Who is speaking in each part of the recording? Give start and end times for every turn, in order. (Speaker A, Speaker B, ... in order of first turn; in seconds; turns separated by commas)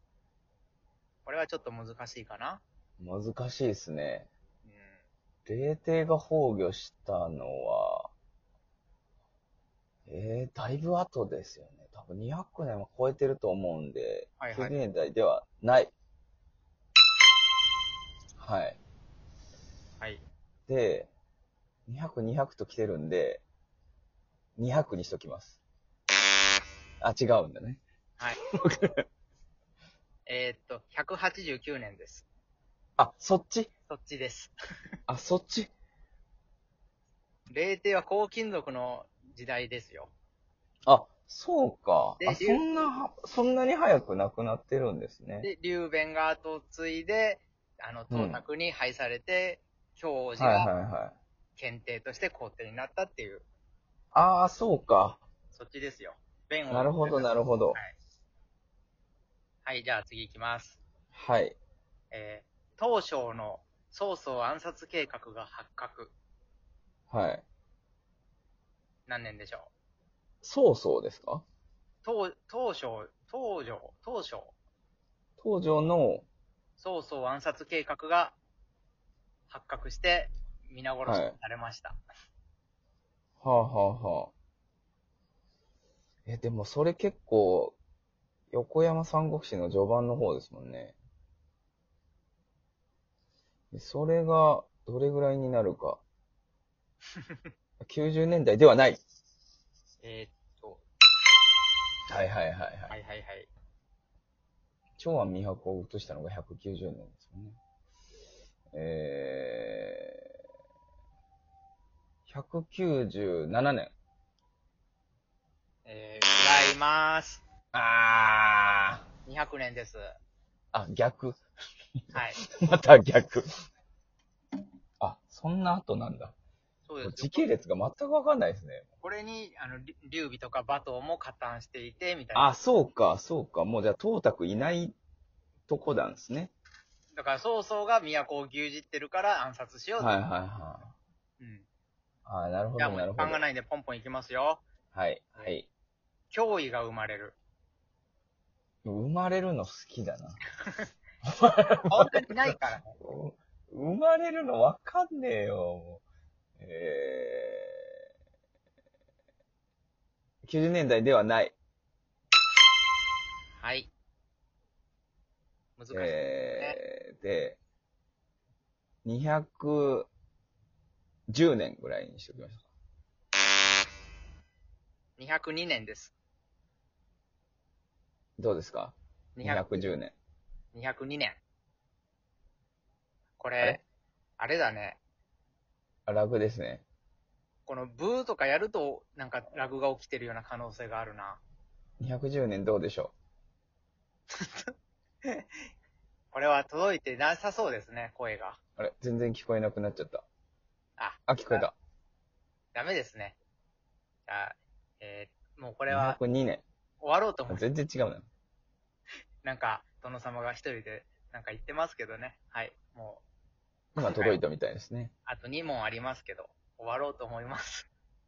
Speaker A: 1.2-2.6, Speaker B: 3.0-4.3, Speaker A: 4.7-5.0, Speaker B: 5.5-8.1, Speaker B: 10.1-15.9, Speaker A: 14.4-14.8, Speaker B: 18.4-18.8, Speaker B: 20.7-21.1, Speaker B: 21.9-23.4, Speaker B: 24.6-25.6, Speaker B: 27.0-27.8, Speaker B: 28.6-29.0, Speaker A: 30.3-32.2, Speaker B: 33.0-33.7, Speaker A: 33.9-34.5, Speaker B: 35.1-35.7, Speaker A: 37.5-40.1, Speaker B: 40.9-45.5, Speaker A: 42.2-42.6, Speaker A: 45.4-50.7, Speaker B: 48.1-48.4, Speaker B: 50.4-51.2, Speaker A: 51.6-53.5, Speaker B: 54.1-55.2, Speaker A: 55.5-57.9, Speaker B: 56.7-57.8, Speaker A: 59.6-60.8, Speaker B: 61.1-61.6, Speaker A: 62.1-66.1, Speaker B: 67.1-67.4, Speaker A: 69.1-69.7, Speaker B: 70.4-71.5, Speaker A: 72.0-74.5, Speaker B: 75.4-76.3, Speaker A: 76.8-78.3, Speaker A: 79.5-82.0, Speaker B: 81.0-81.4, Speaker B: 83.4-84.3, Speaker B: 86.3-87.8, Speaker B: 88.5-91.0, Speaker B: 93.7-96.0, Speaker B: 97.8-99.0, Speaker A: 100.0-100.8, Speaker B: 102.1-103.0, Speaker A: 102.9-103.5, Speaker B: 105.0-107.6, Speaker B: 108.7-110.1, Speaker B: 112.3-113.9, Speaker A: 115.9-117.4, Speaker B: 117.7-119.0, Speaker A: 119.3-120.1, Speaker B: 120.7-121.4, Speaker A: 122.1-122.4, Speaker B: 122.5-123.5, Speaker B: 125.0-126.3, Speaker A: 126.9-127.5, Speaker B: 127.0-128.9, Speaker A: 129.0-132.6, Speaker B: 132.3-134.9, Speaker B: 135.7-136.5, Speaker A: 137.2-140.2, Speaker B: 140.0-140.9, Speaker A: 141.4-141.7, Speaker B: 142.3-143.4, Speaker A: 142.8-144.6, Speaker B: 144.9-145.7, Speaker A: 146.3-147.4, Speaker B: 148.8-150.4, Speaker B: 151.3-152.1, Speaker A: 151.9-152.9, Speaker B: 153.0-156.0, Speaker B: 156.6-157.9, Speaker B: 160.5-161.5, Speaker A: 163.6-163.9, Speaker A: 165.8-166.8, Speaker B: 165.9-167.6, Speaker B: 169.1-170.1, Speaker B: 171.3-172.7, Speaker A: 175.2-176.1, Speaker B: 178.4-180.2, Speaker A: 179.4-179.9, Speaker A: 180.7-181.4, Speaker A: 183.4-183.8, Speaker A: 184.4-185.0, Speaker B: 186.1-186.8, Speaker A: 187.7-191.4, Speaker B: 192.0-193.1, Speaker A: 194.3-194.7, Speaker A: 195.2-195.6, Speaker A: 196.3-198.6, Speaker B: 198.8-200.2, Speaker A: 201.0-201.7, Speaker B: 201.3-201.7, Speaker A: 202.7-203.4, Speaker A: 204.3-206.2, Speaker B: 205.9-206.6, Speaker A: 207.0-207.6, Speaker B: 207.5-208.3, Speaker A: 209.4-213.2, Speaker A: 214.0-214.4, Speaker B: 214.0-215.1, Speaker A: 215.3-217.9